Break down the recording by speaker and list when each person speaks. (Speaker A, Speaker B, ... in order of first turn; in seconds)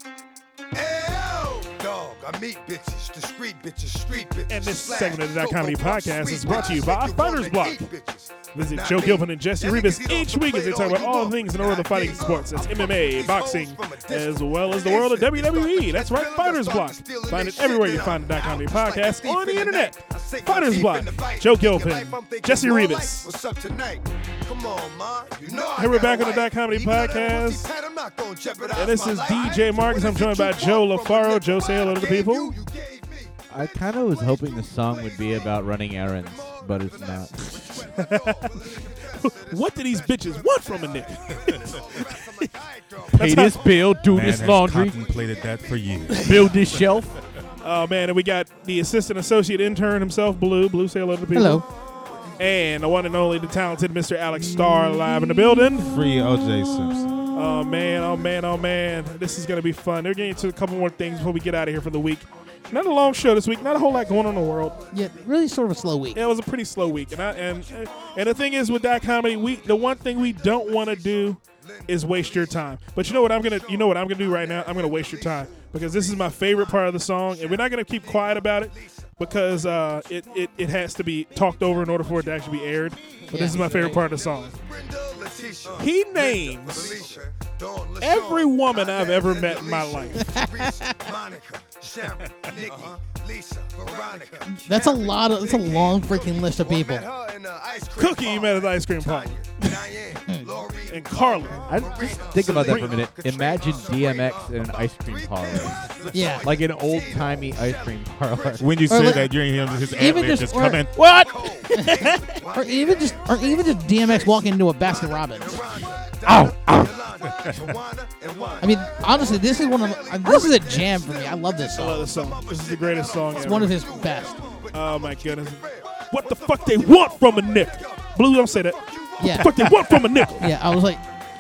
Speaker A: 0.7-33.3, 34.0-44.0, 45.1-45.7, 52.1-52.4, 70.4-79.2, 83.8-108.6, 109.5-110.5, 111.0-129.5
Speaker B: 4.5-7.9, 8.5-23.3, 25.7-27.7, 28.7-32.6, 37.4-42.5, 43.1-43.6, 47.6-51.7, 52.4-56.0, 57.3-64.8, 66.1-84.5, 85.8-87.1, 88.0-90.3, 98.0-99.9, 100.9-101.9, 102.5-103.0, 121.7-123.8, 124.7-130.5
Speaker C: 33.5-37.5, 43.1-45.0, 46.2-47.1, 83.3-84.0, 101.7-105.9, 106.4-108.7, 116.2-117.0
Speaker D: 44.1-46.9, 55.8-57.2, 92.2-92.6, 108.6-111.0, 117.2-117.8
Speaker E: 51.3-51.6, 64.9-66.2, 83.3-84.0, 90.2-91.0, 94.5-97.1, 100.3-100.5, 106.1-106.5, 108.9-109.3, 109.9-111.0, 111.7-115.7, 118.6-122.1, 123.3-124.4, 129.2-129.5, 130.4-131.0